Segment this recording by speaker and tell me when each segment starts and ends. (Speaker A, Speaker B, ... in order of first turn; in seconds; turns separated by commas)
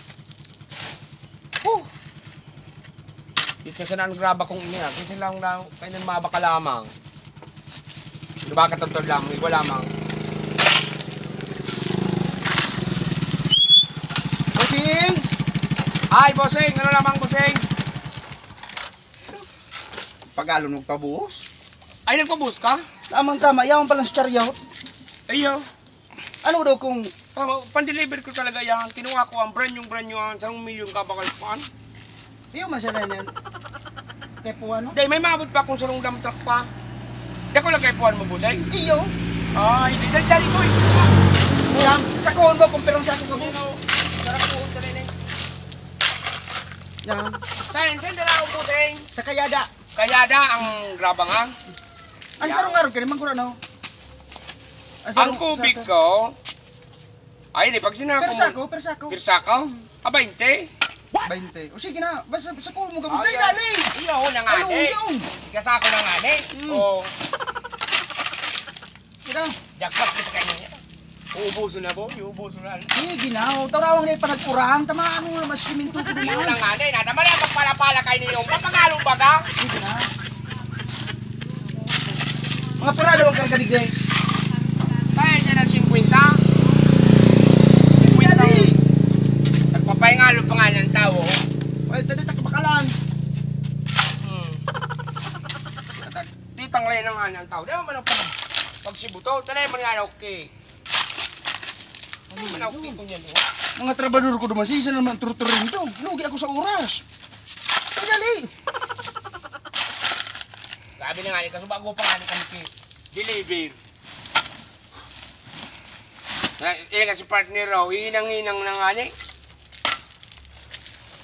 Speaker A: 3.6-6.9, Speaker A: 8.4-9.9, Speaker B: 14.5-15.2, Speaker A: 16.1-17.6, Speaker B: 20.3-21.4, Speaker A: 22.1-22.8, Speaker B: 23.1-24.6, Speaker A: 25.3-25.6, Speaker B: 26.4-27.1, Speaker A: 27.3-31.7, Speaker B: 32.5-33.3, Speaker B: 34.4-35.0, Speaker A: 34.9-36.7, Speaker A: 37.5-38.6, Speaker B: 38.7-39.1, Speaker A: 39.5-41.1, Speaker B: 41.7-43.6, Speaker A: 43.3-45.1, Speaker B: 47.0-47.4, Speaker A: 47.7-49.1, Speaker B: 49.1-49.7, Speaker A: 50.0-51.5, Speaker B: 52.4-53.6, Speaker A: 52.4-52.8, Speaker B: 55.0-55.9, Speaker A: 55.1-56.3, Speaker A: 57.5-58.6, Speaker B: 58.2-59.2, Speaker A: 59.1-60.7, Speaker B: 61.2-63.9, Speaker A: 63.1-67.1, Speaker B: 64.5-65.3, Speaker B: 66.5-66.8, Speaker B: 69.2-69.5, Speaker A: 69.8-70.8, Speaker A: 71.3-72.9, Speaker B: 72.9-76.6, Speaker A: 75.9-79.5, Speaker B: 79.6-80.1, Speaker B: 82.8-83.9, Speaker A: 85.1-86.4, Speaker A: 87.9-88.7, Speaker B: 88.0-88.8, Speaker A: 89.7-91.4, Speaker B: 91.9-92.9, Speaker A: 94.2-94.6, Speaker A: 96.0-100.5, Speaker B: 102.3-103.0, Speaker A: 102.3-103.4, Speaker B: 103.8-107.0, Speaker B: 108.0-108.5, Speaker A: 111.0-113.8, Speaker A: 116.6-119.1